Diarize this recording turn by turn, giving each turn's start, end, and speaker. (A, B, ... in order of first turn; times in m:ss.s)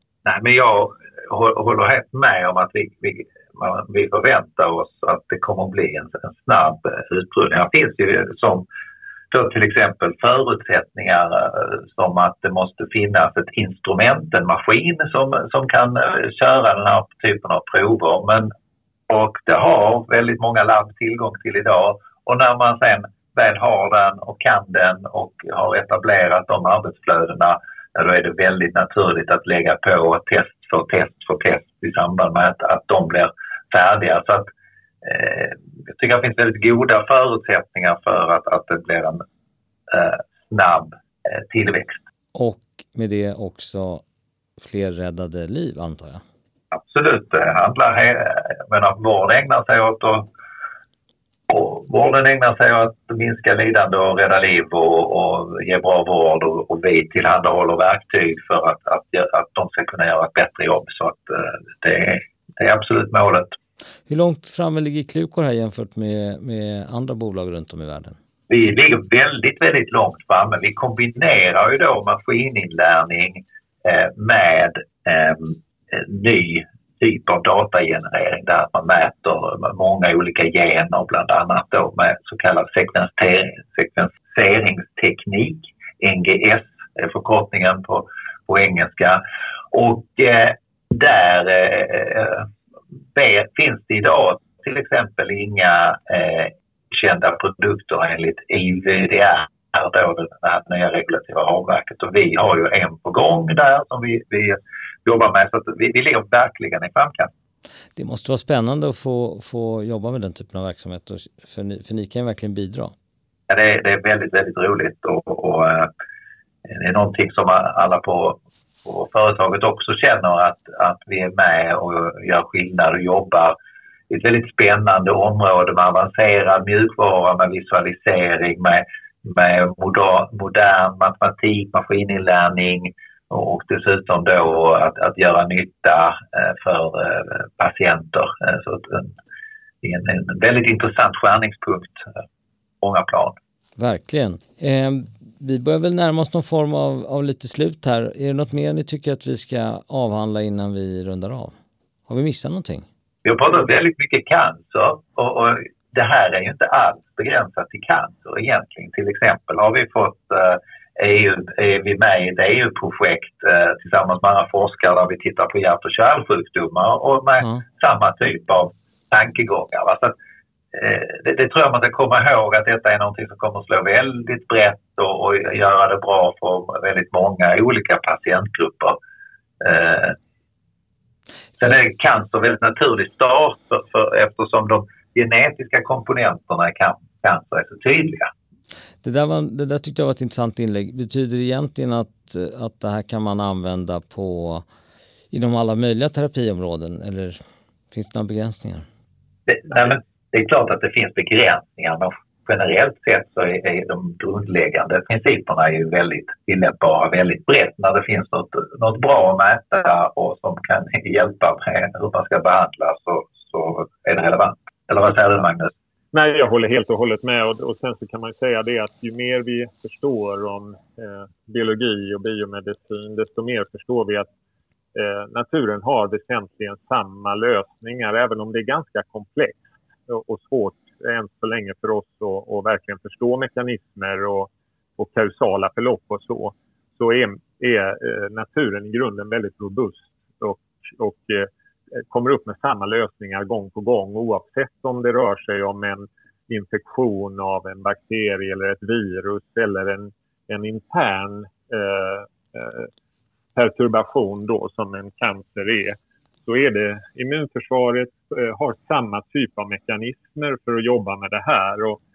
0:00.2-0:08.6 A
0:09.3-0:18.5 A
0:19.1-0:34.5 A
0:35.0-0:39.2 A
0:39.9-0:42.0 A
0:42.3-0:44.0 B
0:44.6-0:46.2 B
0:46.7-0:50.3 A
0:51.5-1:03.6 A
1:04.1-1:08.2 B
1:08.5-1:29.2 A
1:29.7-1:32.5 A
1:33.1-1:47.3 A
1:47.9-1:52.9 B
1:53.5-1:55.9 A
1:56.6-2:03.5 A
2:04.1-2:19.2 A
2:19.8-2:22.2 A
2:22.8-2:23.4 A
2:23.8-2:31.5 B
2:32.1-2:32.9 B
2:33.2-2:50.1 A
2:50.7-2:59.0 A
2:59.6-3:00.2 A
3:01.6-3:08.3 A
3:09.0-3:14.6 B
3:15.3-3:17.4 B
3:17.9-3:18.8 B
3:19.5-3:35.7 A
3:36.1-3:44.3 C
3:44.9-4:12.9 C
4:13.5-4:22.0 C